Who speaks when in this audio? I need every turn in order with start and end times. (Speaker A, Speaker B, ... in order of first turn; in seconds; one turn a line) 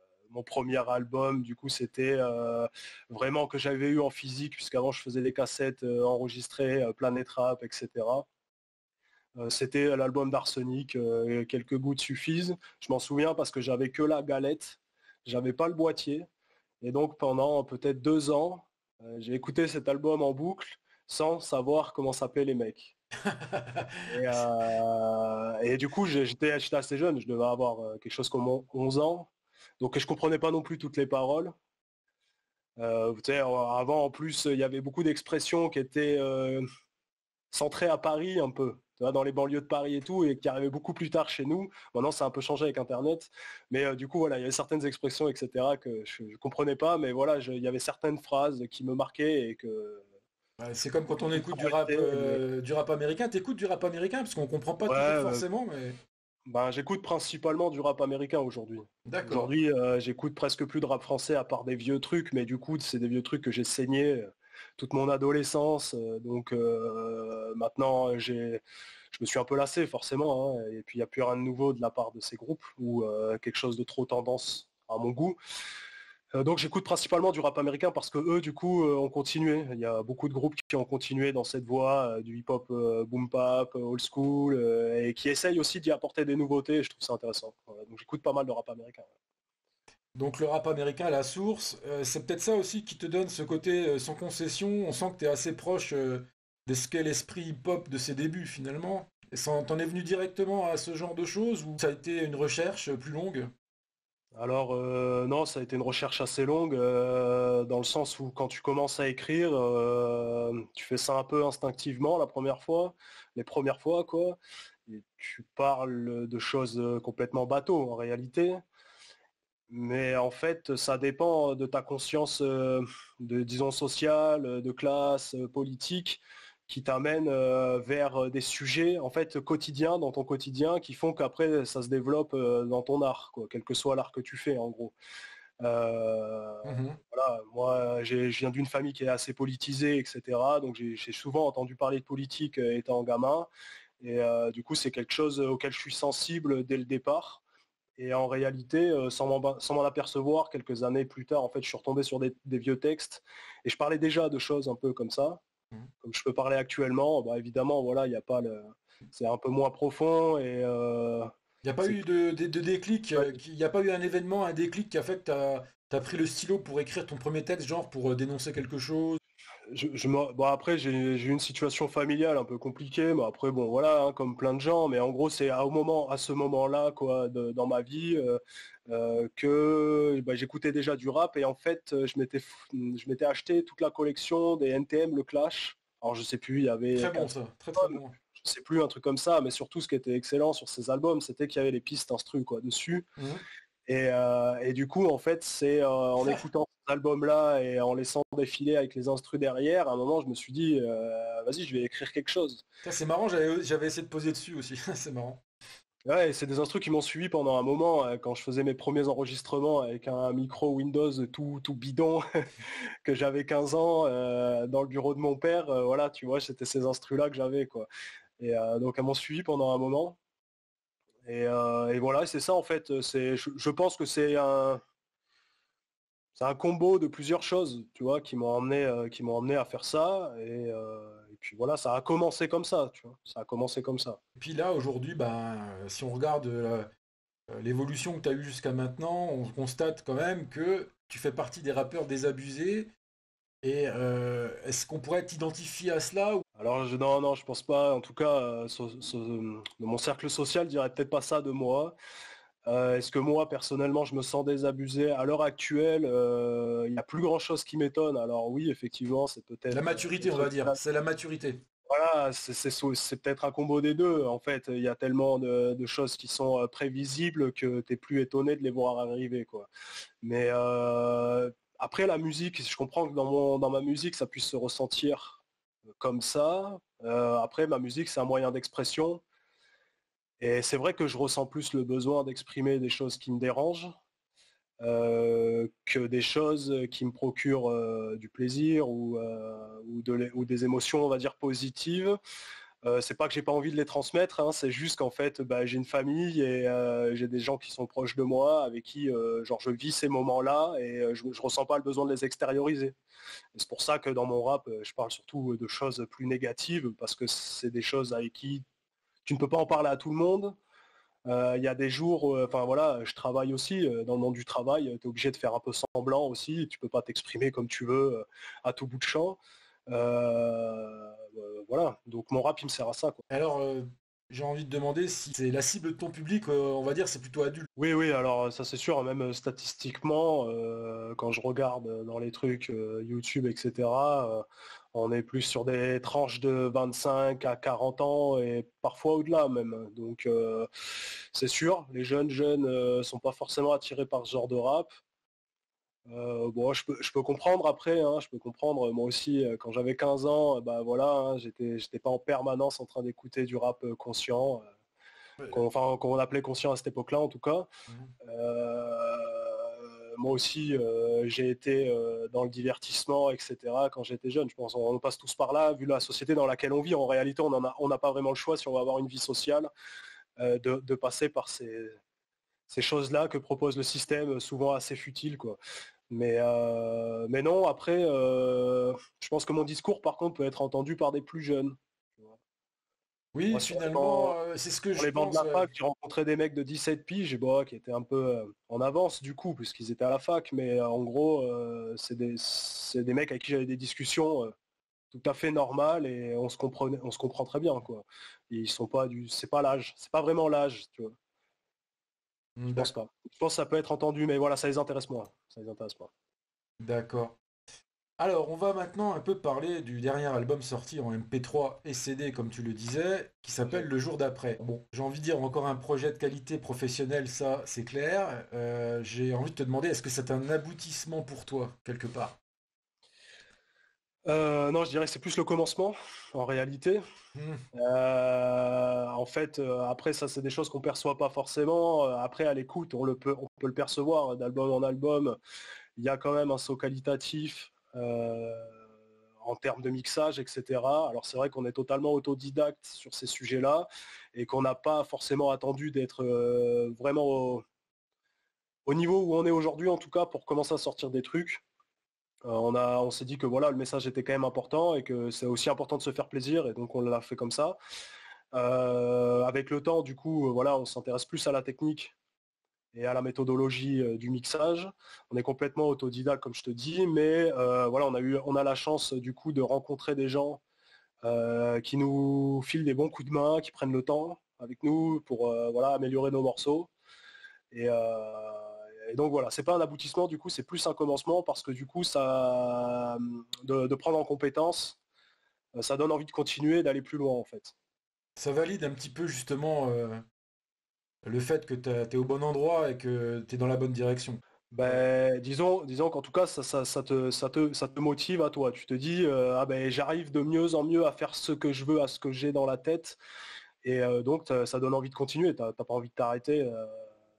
Speaker A: 0.3-8.2
Speaker A: 9.4-16.3
Speaker A: 16.8-22.9
Speaker B: 23.2-24.4
Speaker A: 24.1-29.3
Speaker A: 29.8-31.5
Speaker A: 32.8-36.6
Speaker A: 37.5-50.0
Speaker B: 50.6-56.0
Speaker A: 51.3-52.4
Speaker A: 54.9-55.5
Speaker A: 56.5-75.4
Speaker B: 59.0-59.5
Speaker A: 76.3-89.1
Speaker B: 90.1-103.5
Speaker A: 104.3-118.6
Speaker A: 119.7-134.9
Speaker A: 135.6-143.5
Speaker B: 136.6-137.0
Speaker A: 144.0-147.4
Speaker A: 148.0-155.4
Speaker A: 156.0-161.3
Speaker B: 161.6-169.2
Speaker A: 169.7-193.1
Speaker B: 186.9-188.2
Speaker A: 193.9-202.6
Speaker B: 202.8-205.4
Speaker A: 206.1-217.9
Speaker A: 218.4-220.2
Speaker A: 221.2-224.8
Speaker A: 226.3-234.2
Speaker B: 234.4-236.9
Speaker B: 237.5-242.9
Speaker B: 243.6-246.4
Speaker A: 246.6-251.9
Speaker A: 252.7-260.8
Speaker B: 259.7-261.6
Speaker A: 261.9-269.7
Speaker A: 270.2-275.4
Speaker A: 276.0-279.2
Speaker A: 280.4-283.9
Speaker A: 284.8-292.2
Speaker A: 292.8-302.9
Speaker A: 303.5-308.6
Speaker A: 309.2-310.5
Speaker A: 311.2-323.2
Speaker B: 323.3-327.7
Speaker A: 327.8-340.7
Speaker A: 341.3-344.9
Speaker A: 346.1-354.7
Speaker A: 355.5-357.7
Speaker A: 358.2-369.7
Speaker A: 370.4-372.0
Speaker A: 372.7-375.6
Speaker A: 376.1-382.3
Speaker B: 383.3-385.7
Speaker A: 383.5-384.4
Speaker A: 384.9-394.5
Speaker A: 395.1-401.1
Speaker B: 402.6-402.9
Speaker A: 402.7-406.1
Speaker B: 406.8-407.4
Speaker B: 408.2-422.4
Speaker A: 424.3-427.0
Speaker B: 427.3-427.6
Speaker A: 427.7-435.4
Speaker A: 436.0-438.8
Speaker A: 439.4-447.6
Speaker A: 448.9-451.6
Speaker A: 452.4-457.8
Speaker A: 458.5-462.1
Speaker A: 462.9-470.6
Speaker A: 471.2-476.9
Speaker A: 477.7-485.0
Speaker A: 485.8-487.7
Speaker B: 488.4-490.2
Speaker B: 491.2-495.0
Speaker A: 494.7-503.2
Speaker A: 503.8-507.0